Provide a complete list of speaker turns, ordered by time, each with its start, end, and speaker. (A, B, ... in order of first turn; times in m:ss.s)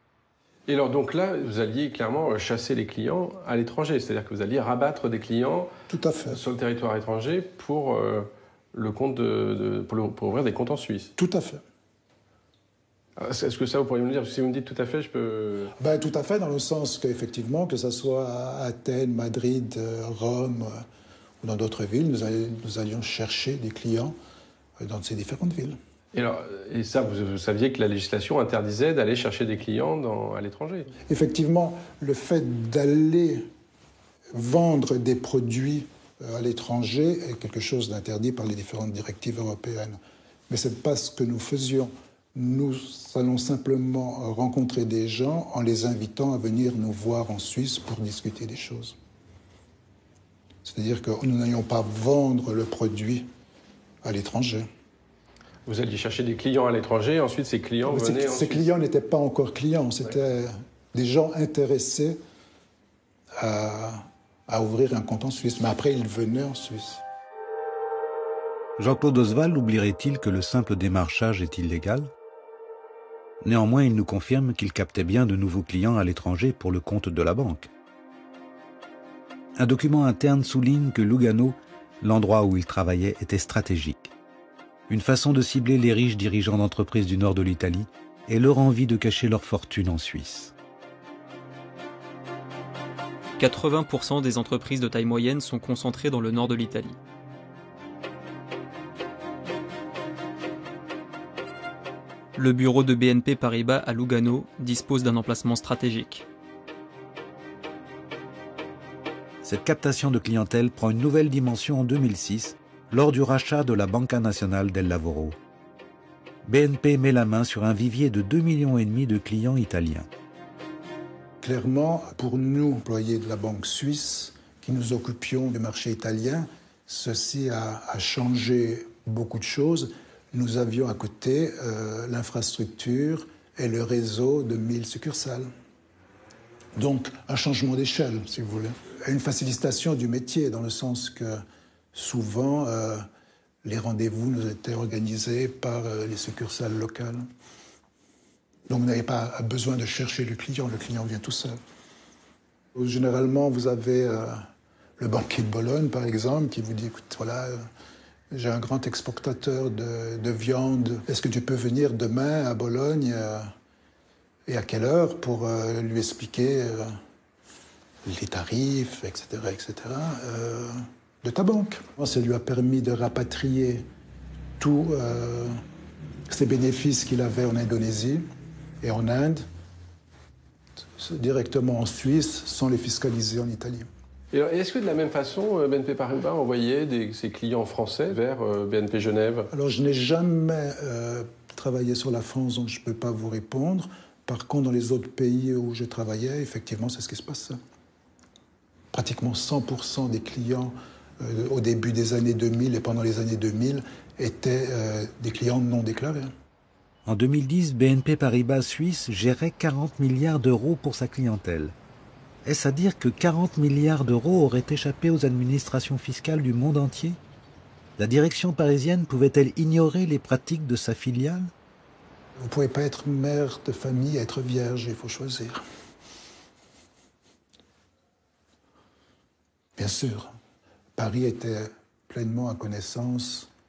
0:00.7-0:05.7 A
0:05.9-0:06.4 B
0:06.3-0:11.1 A
0:11.2-0:11.6 B
0:13.2-0:15.7 A
0:15.8-0:20.8 B
0:21.4-0:24.2 B
0:24.8-0:25.8 B
0:26.1-0:30.9 A
0:31.1-0:33.5 B
0:34.3-0:40.0 B
0:40.5-0:49.0 B
0:50.6-0:53.3 B
0:54.0-0:54.7 B
0:55.7-0:58.7 A
0:57.8-1:02.2 B
1:03.4-1:07.0 B
1:08.8-1:12.1 C
1:13.4-1:17.7 C
1:19.6-1:24.1 C
1:24.9-1:30.5 C
1:33.4-1:37.0 D
1:42.4-1:46.2 D
1:49.4-1:55.4 C
1:56.4-2:00.1 C
2:01.4-2:15.5 B
2:16.8-2:21.4 B
2:22.0-2:23.0 B
2:23.6-2:27.2 B
2:28.7-2:31.6 B
2:32.8-2:34.4 B
2:35.0-2:37.6 B
2:38.3-2:43.5 B
2:44.5-2:47.0 B
2:48.0-2:53.9 B
2:54.6-2:55.6 B
2:56.3-2:58.3 B
2:58.8-2:59.5 B
3:01.0-3:03.9 B
3:04.3-3:09.5 A
3:09.5-3:17.6 B
3:18.9-3:26.3 B
3:27.0-3:31.8 C
3:32.4-3:37.2 C
3:38.0-3:41.5 C
3:42.4-3:45.6 B
3:49.8-3:50.3 B
3:51.0-3:53.5 B